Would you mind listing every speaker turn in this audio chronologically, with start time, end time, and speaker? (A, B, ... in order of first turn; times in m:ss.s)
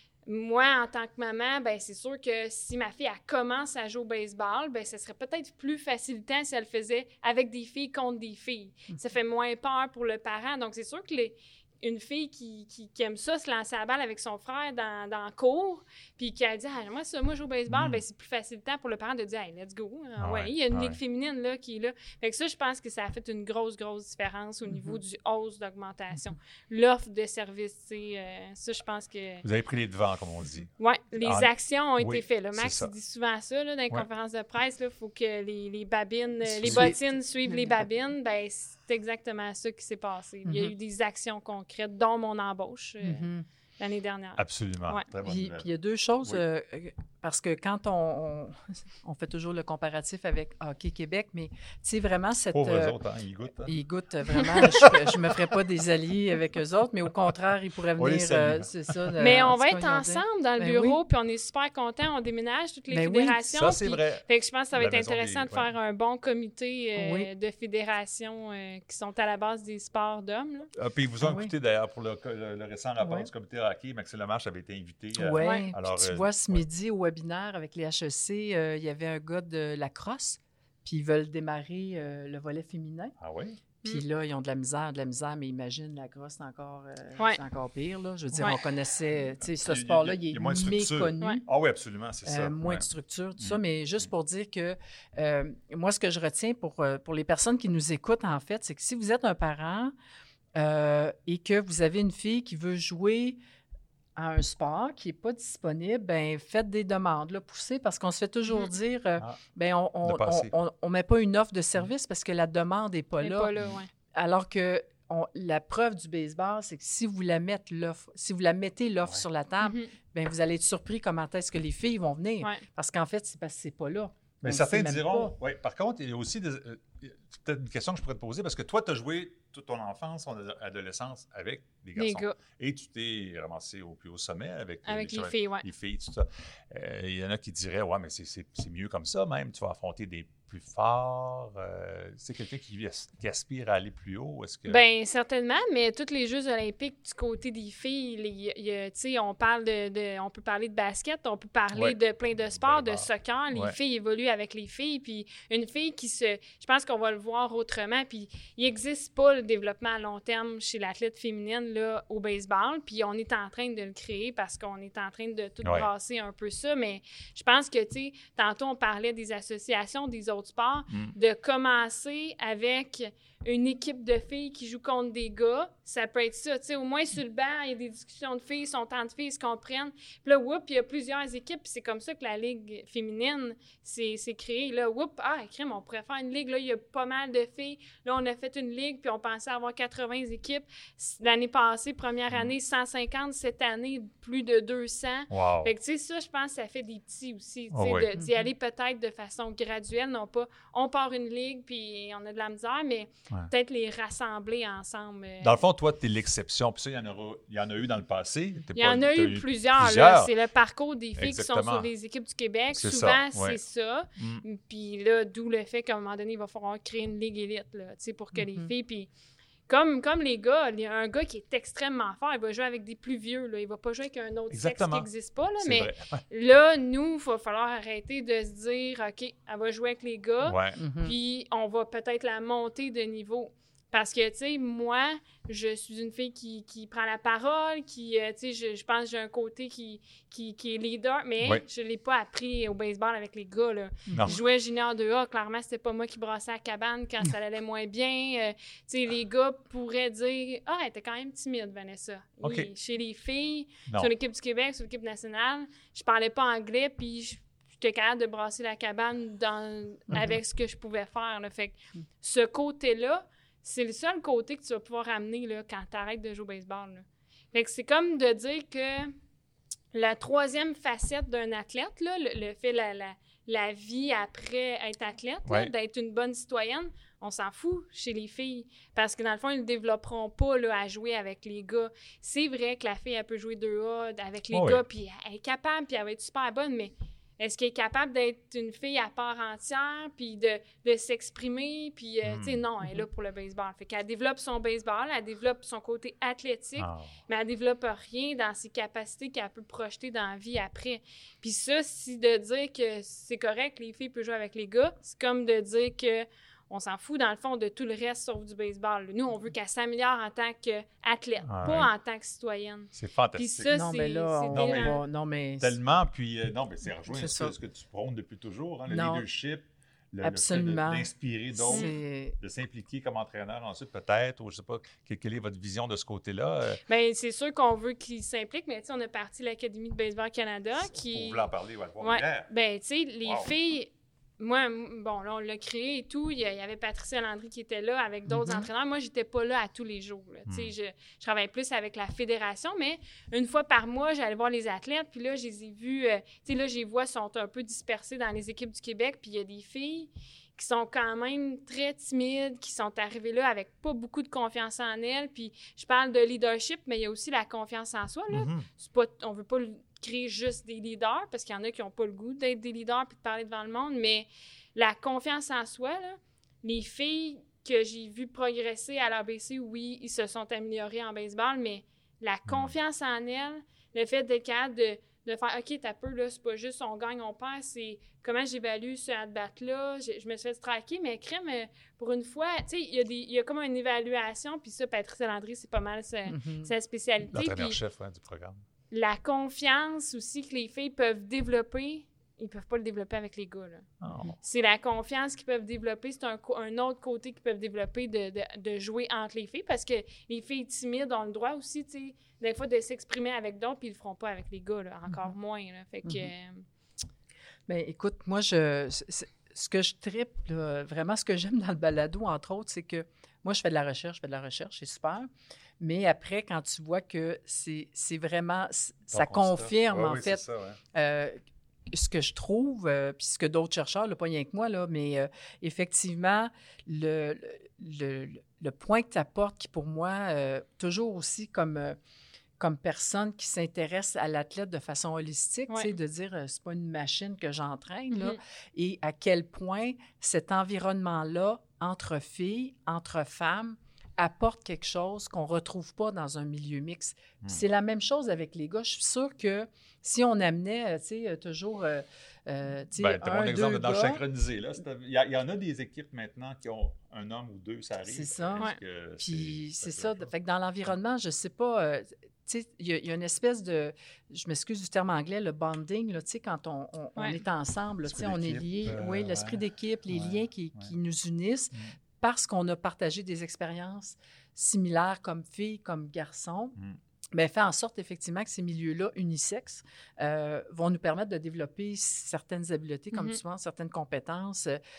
0:00.2-0:29.4 A
0:17.7-0:18.0 B
0:20.2-0:21.0 B
0:24.7-0:25.0 C
0:29.4-0:32.9 B
0:30.8-0:43.3 A
0:36.5-0:37.8 C
0:36.6-0:36.9 B
0:40.5-0:40.7 C
0:43.0-0:43.4 C
0:43.8-0:45.0 A
0:44.4-0:45.7 B
0:45.2-0:53.0 C
0:52.5-0:53.7 B
0:53.6-1:01.0 C
0:54.5-0:55.1 B
0:58.0-0:59.3 B
0:59.2-1:10.7 A
1:02.9-1:03.4 C
1:03.5-1:05.7 B
1:07.0-1:07.3 C
1:10.8-1:16.6 B
1:11.2-1:11.5 C
1:13.0-1:13.3 C
1:15.2-1:23.1 C
1:15.4-1:15.7 A
1:23.2-1:23.6 B
1:23.8-1:31.4 C
1:29.4-1:32.9 B
1:32.2-1:39.9 C
1:40.6-1:43.4 C
1:44.2-1:53.5 C
1:50.0-1:50.5 B
1:53.2-1:53.9 A
1:54.1-2:05.3 C
1:59.6-1:59.9 A
2:04.4-2:24.8 B
2:12.0-2:12.4 A
2:14.8-2:15.6 A
2:24.7-3:25.6 A
2:31.7-2:33.8 B
2:45.6-2:45.9 B
2:50.9-2:51.1 B
3:15.3-3:15.7 B
3:17.7-3:18.1 B
3:18.2-3:18.5 C
3:25.4-3:30.3 B
3:28.7-3:39.1 A
3:31.2-3:31.9 B
3:32.7-3:33.6 B
3:34.2-3:34.4 B
3:38.3-3:38.7 C
3:39.7-4:29.1 A
3:44.5-3:45.1 B
3:45.6-3:46.2 B
3:50.4-3:50.8 B
3:50.8-3:51.1 C
4:04.1-4:04.4 C
4:04.1-4:04.4 B
4:12.4-4:12.7 B
4:29.9-5:15.0 A
4:44.5-4:44.8 B
4:52.2-4:52.6 B
4:56.8-4:57.1 B
5:11.5-5:11.9 B
5:12.9-5:13.7 B
5:13.7-5:15.8 C
5:14.5-5:15.0 B
5:15.6-5:26.8 B
5:17.1-5:17.5 C
5:18.9-5:19.2 C
5:20.2-5:22.4 C
5:26.9-5:31.5 A
5:30.8-5:32.5 B
5:32.0-6:27.8 A
5:33.2-5:33.5 B
5:38.3-5:38.7 C
5:58.3-5:58.6 B
6:12.5-6:12.7 B
6:26.3-6:26.7 C
6:27.3-6:28.6 B
6:28.9-6:33.8 A
6:34.0-6:34.3 B
6:34.4-6:46.6 A
6:47.7-7:00.4 C
6:59.1-7:00.8 B
7:00.9-7:01.4 C
7:01.9-7:12.0 C
7:12.6-7:34.2 C
7:18.1-7:18.4 A
7:33.0-7:40.2 B
7:38.0-7:56.8 C
7:48.0-7:50.9 B
7:57.3-8:04.8 C
8:03.1-8:03.4 A